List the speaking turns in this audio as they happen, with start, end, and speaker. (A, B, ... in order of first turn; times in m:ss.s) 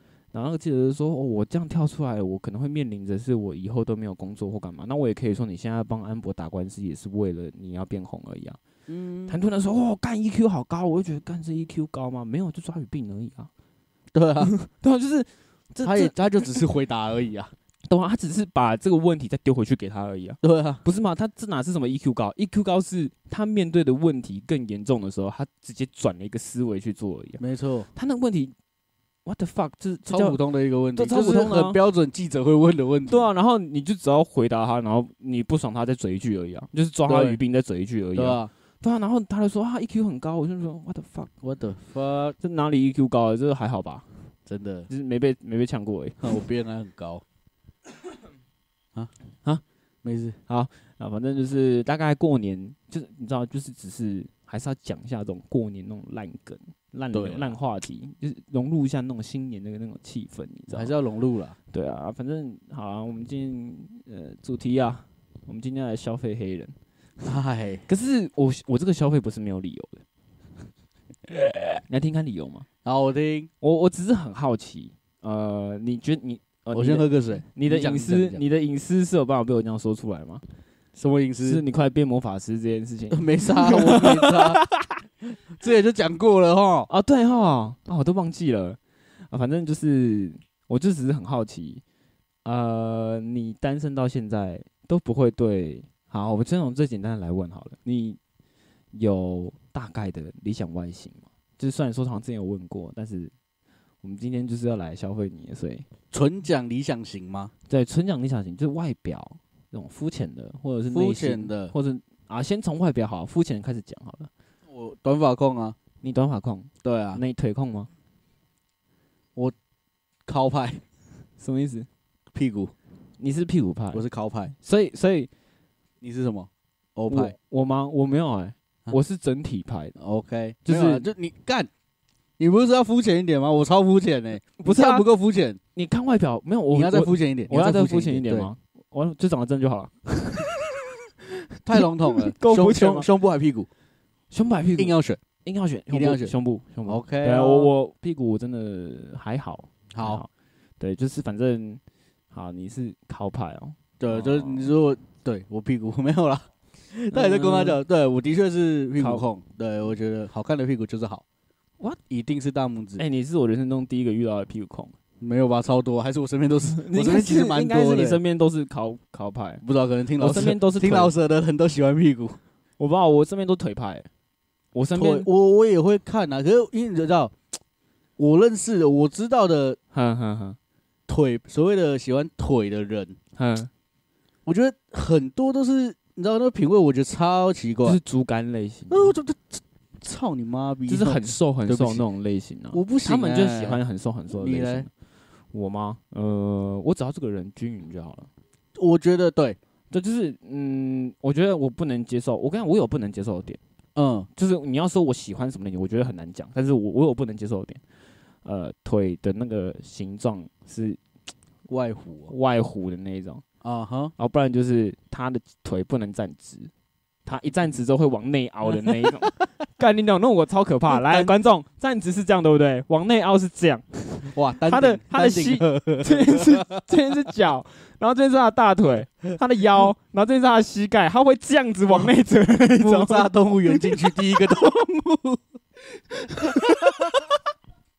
0:00.3-0:08.6 A
0:08.9-0:09.4 B
0:09.3-0:13.5 A
0:14.1-0:14.5 B
0:14.4-0:16.6 A
0:15.8-0:17.5 B
0:17.9-0:27.4 A
0:20.4-0:20.8 B
0:27.4-0:27.9 B
0:27.9-0:28.5 A
0:29.3-0:30.4 A
0:30.1-0:33.3 B
0:30.9-0:31.8 A
0:33.1-0:41.3 A
0:37.1-0:37.4 B
0:38.1-0:38.5 B
0:41.4-0:42.4 B
0:42.4-0:44.1 A
0:44.5-0:44.9 B
0:44.9-0:46.3 A
0:46.2-0:47.2 B
0:50.0-0:50.4 B
0:50.5-1:00.9 A
0:57.1-0:57.6 B
1:00.7-1:01.6 B
1:01.7-1:06.7 A
1:07.2-1:07.8 B
1:07.9-1:10.0 A
1:11.3-1:12.6 A
1:12.8-1:13.5 B
1:13.6-1:20.4 A
1:16.8-1:18.4 B
1:21.0-1:21.6 B
1:21.4-1:25.0 A
1:23.1-1:24.6 B
1:25.6-1:26.9 B
1:26.9-1:28.8 A
1:29.3-1:31.8 A
1:32.4-1:38.2 A
1:38.9-1:43.3 A
1:44.0-1:45.8 A
1:46.1-1:47.5 B
1:47.7-1:54.3 A
1:50.9-1:51.7 B
1:54.7-1:55.8 B
1:56.0-1:57.9 A
1:56.8-1:57.2 B
2:00.3-2:00.8 B
2:01.4-2:01.9 A
2:02.3-2:02.7 B
2:03.2-2:04.0 A
2:03.9-2:04.5 B
2:04.6-2:05.3 A
2:06.0-2:07.3 B
2:07.1-2:09.9 A
2:10.0-2:11.7 B
2:10.6-2:11.1 A
2:12.4-2:15.6 B
2:14.6-2:15.1 A
2:15.8-2:23.1 A
2:16.7-2:18.5 B
2:21.6-2:23.7 B
2:24.3-2:30.3 A
2:24.8-2:25.2 B
2:25.9-2:26.3 B
2:26.9-2:27.7 B
2:29.9-2:30.2 B
2:30.8-2:31.8 A
2:32.3-2:34.7 A
2:34.0-2:41.2 B
2:37.1-2:37.8 A
2:39.0-2:39.2 A
2:42.1-2:43.0 B
2:43.0-2:44.9 A
2:45.2-2:48.2 B
2:46.7-2:49.6 A
2:49.6-2:52.4 B
2:50.2-2:51.1 A
2:52.8-2:54.1 A
2:54.7-2:55.3 A
2:55.0-2:57.4 B
2:58.2-2:59.8 B
2:59.9-3:00.6 A
3:01.1-3:03.2 B
3:03.4-3:03.7 A
3:04.4-3:08.0 B
3:07.8-3:09.1 A
3:08.9-3:12.0 B
3:10.9-3:14.9 A
3:12.7-3:13.8 B
3:14.3-3:14.9 B
3:15.5-3:18.3 A
3:18.8-3:19.6 B
3:19.9-3:23.6 A
3:24.0-3:24.3 B
3:24.4-3:27.8 A
3:28.4-3:31.0 A
3:31.7-3:32.3 B
3:32.3-3:33.4 A
3:33.6-3:34.1 B
3:34.2-3:36.7 A
3:37.3-3:54.0 A
3:40.9-3:41.3 B
3:44.3-3:46.8 B
3:52.8-3:55.4 B
3:56.2-3:57.1 A
3:56.4-3:57.2 B